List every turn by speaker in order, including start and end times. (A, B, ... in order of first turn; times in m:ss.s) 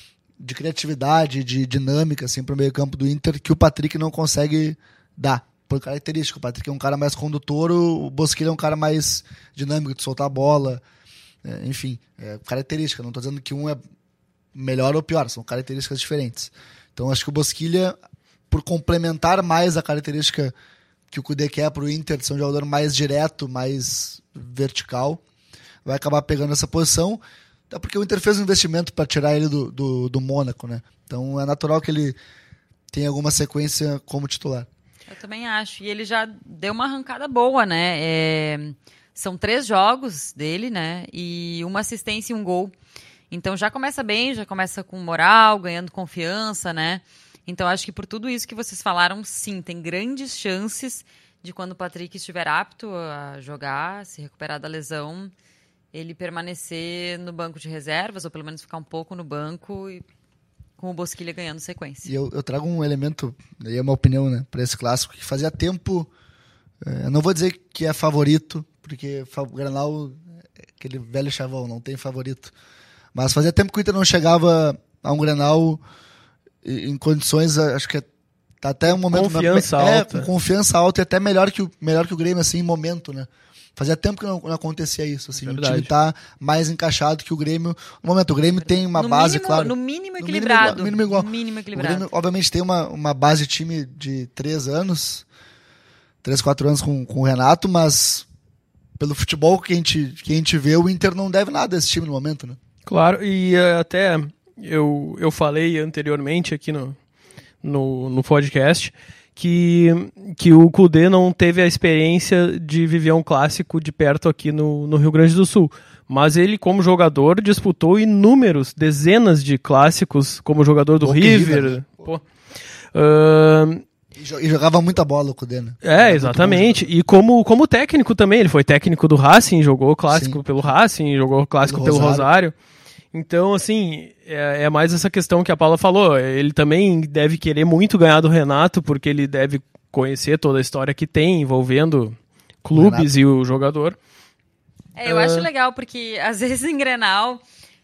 0:00.4-0:10.8 A
0:11.4-0:13.8 A
0:14.5-0:18.0 A
0:18.5-0:20.5 A
0:21.1-0:25.2 A
0:25.8-0:32.2 A
0:32.9-0:34.7 A
0:35.1-0:42.7 B
0:43.3-0:55.3 B
0:55.9-1:00.0 B
1:00.8-1:02.1 B
1:02.0-1:06.1 A
1:06.8-1:10.2 A
1:10.8-1:12.5 A
1:13.1-1:15.8 A
1:16.6-1:18.1 A
1:18.6-1:35.2 A
1:18.9-1:20.3 C
1:25.4-1:25.9 C
1:28.6-1:32.1 B
1:36.2-1:38.2 A
1:39.0-1:42.6 A
1:42.8-1:47.0 C
1:47.6-2:02.2 C
2:01.0-2:02.1 A
2:02.9-2:03.8 C
2:04.1-2:06.9 A
2:05.8-2:12.5 C
2:10.1-2:10.4 A
2:11.6-2:12.3 A
2:13.1-2:24.0 C
2:22.7-2:23.1 A
2:25.0-2:27.4 B
2:25.0-2:25.5 C